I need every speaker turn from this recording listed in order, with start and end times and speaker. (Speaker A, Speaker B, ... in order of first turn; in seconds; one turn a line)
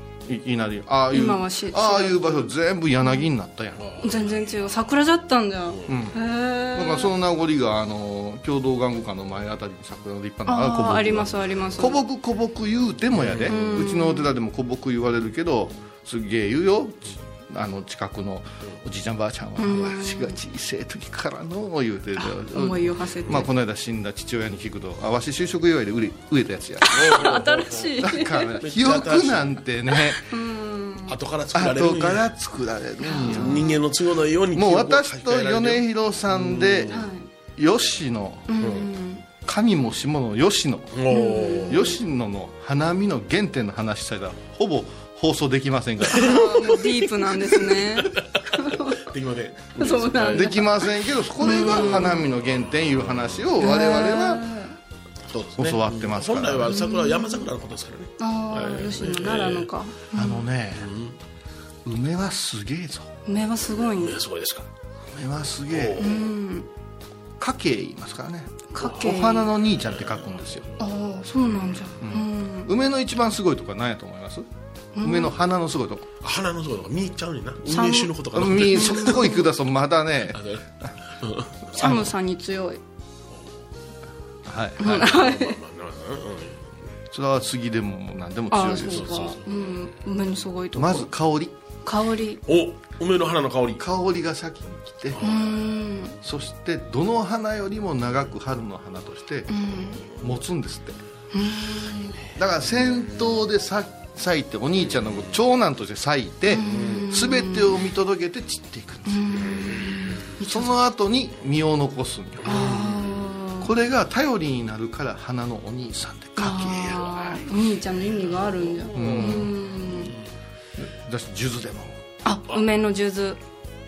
Speaker A: 0.3-3.9
Speaker B: 1.1-2.2
Speaker C: 3.8-4.6
Speaker B: 4.0-7.1
Speaker C: 5.7-6.0
Speaker A: 5.9-27.3
Speaker B: 10.5-12.0
Speaker C: 13.1-13.9
Speaker B: 13.5-14.3
Speaker B: 19.6-20.4
Speaker B: 22.1-23.5
Speaker B: 26.8-28.6
Speaker C: 26.9-28.1
Speaker A: 28.0-30.3
Speaker C: 28.6-29.6
Speaker B: 30.1-31.2
Speaker C: 31.1-32.3
Speaker A: 31.5-33.8
Speaker B: 33.0-33.8
Speaker C: 33.2-37.1
Speaker A: 34.5-38.6
Speaker B: 36.9-37.3
Speaker B: 38.5-39.2
Speaker C: 38.6-38.9
Speaker A: 39.5-46.6
Speaker C: 40.9-41.9
Speaker B: 41.1-42.0
Speaker C: 46.1-50.7
Speaker B: 46.1-49.0
Speaker B: 49.8-50.7
Speaker A: 50.3-54.5
Speaker B: 51.4-52.2
Speaker C: 51.4-53.5
Speaker B: 53.6-54.8
Speaker C: 55.3-59.7
Speaker A: 55.6-56.8
Speaker B: 56.7-57.5
Speaker B: 58.2-60.5
Speaker A: 60.1-60.9
Speaker C: 60.8-61.2
Speaker A: 61.9-63.1
Speaker B: 63.3-64.2
Speaker C: 63.7-64.7
Speaker A: 65.1-66.1
Speaker C: 65.7-66.4
Speaker B: 66.0-66.7
Speaker A: 67.4-70.7
Speaker B: 68.7-69.5
Speaker C: 68.8-69.1
Speaker C: 69.6-71.9
Speaker B: 70.8-72.7
Speaker A: 72.0-74.5
Speaker B: 75.0-75.3
Speaker A: 75.0-76.1
Speaker C: 76.2-79.3
Speaker B: 77.7-78.1
Speaker A: 78.3-80.9
Speaker B: 78.7-79.5
Speaker C: 80.3-80.7
Speaker C: 81.2-82.1
Speaker A: 81.8-82.1
Speaker B: 81.8-82.8
Speaker A: 84.5-85.2
Speaker B: 84.8-85.6
Speaker C: 84.8-86.7
Speaker A: 87.1-89.4
Speaker B: 88.5-91.1
Speaker C: 88.8-90.0
Speaker A: 90.7-91.5
Speaker B: 91.8-92.4
Speaker C: 92.5-93.8
Speaker A: 93.8-95.2
Speaker C: 95.1-95.8
Speaker B: 95.2-96.2
Speaker A: 96.2-101.0
Speaker B: 99.5-100.0
Speaker B: 101.3-102.2
Speaker A: 102.3-109.7
Speaker C: 104.9-105.3
Speaker B: 106.5-107.8
Speaker C: 106.7-107.2
Speaker B: 109.1-110.8
Speaker C: 109.4-110.2
Speaker A: 110.4-112.9
Speaker C: 112.4-113.4
Speaker B: 112.5-113.7
Speaker A: 113.6-117.1
Speaker B: 116.4-120.1
Speaker C: 116.8-120.2
Speaker A: 119.0-119.6
Speaker A: 120.8-122.0
Speaker B: 122.2-123.4